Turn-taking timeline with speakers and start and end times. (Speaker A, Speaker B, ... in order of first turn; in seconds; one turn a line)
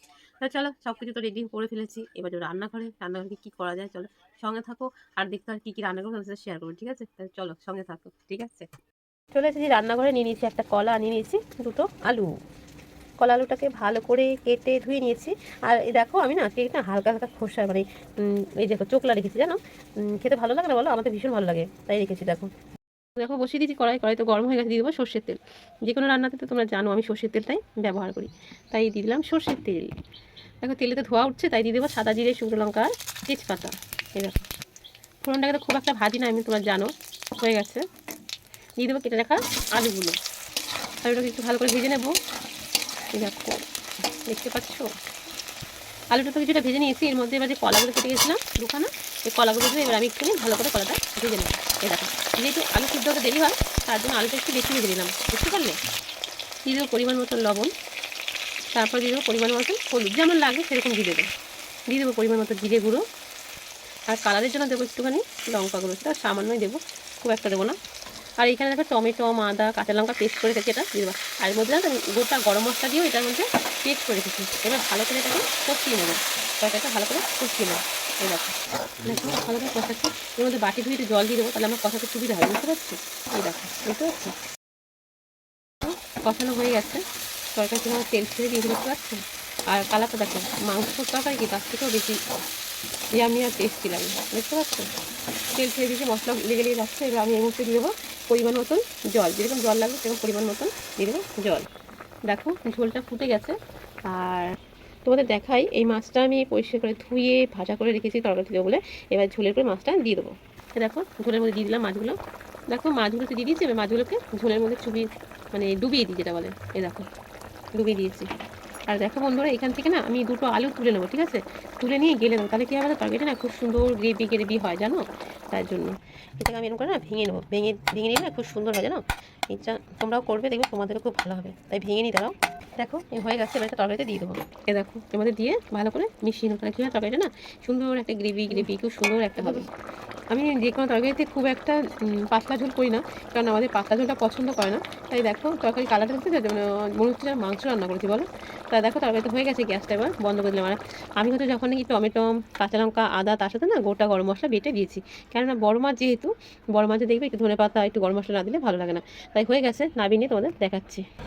Speaker A: 0.4-8.7
Speaker A: 9.3-12.3
Speaker A: 13.2-22.5
Speaker A: 23.2-29.9
Speaker A: 30.6-34.4
Speaker A: 35.2-37.8
Speaker A: 38.8-40.2
Speaker A: 41.0-42.1
Speaker A: 43.1-43.6
Speaker A: 44.3-44.9
Speaker A: 46.1-55.8
Speaker A: 56.7-57.7
Speaker A: 58.7-61.3
Speaker A: 61.9-63.0
Speaker A: 64.1-67.8
Speaker A: 68.4-84.3
Speaker A: 85.8-87.0
Speaker A: 87.5-92.2
Speaker A: 93.2-94.9
Speaker A: 95.5-101.7
Speaker A: 102.3-103.6
Speaker A: 104.1-104.5
Speaker A: 105.0-112.2
Speaker A: 112.7-117.1
Speaker A: 117.8-118.3
Speaker A: 118.9-139.7
Speaker A: 140.3-161.0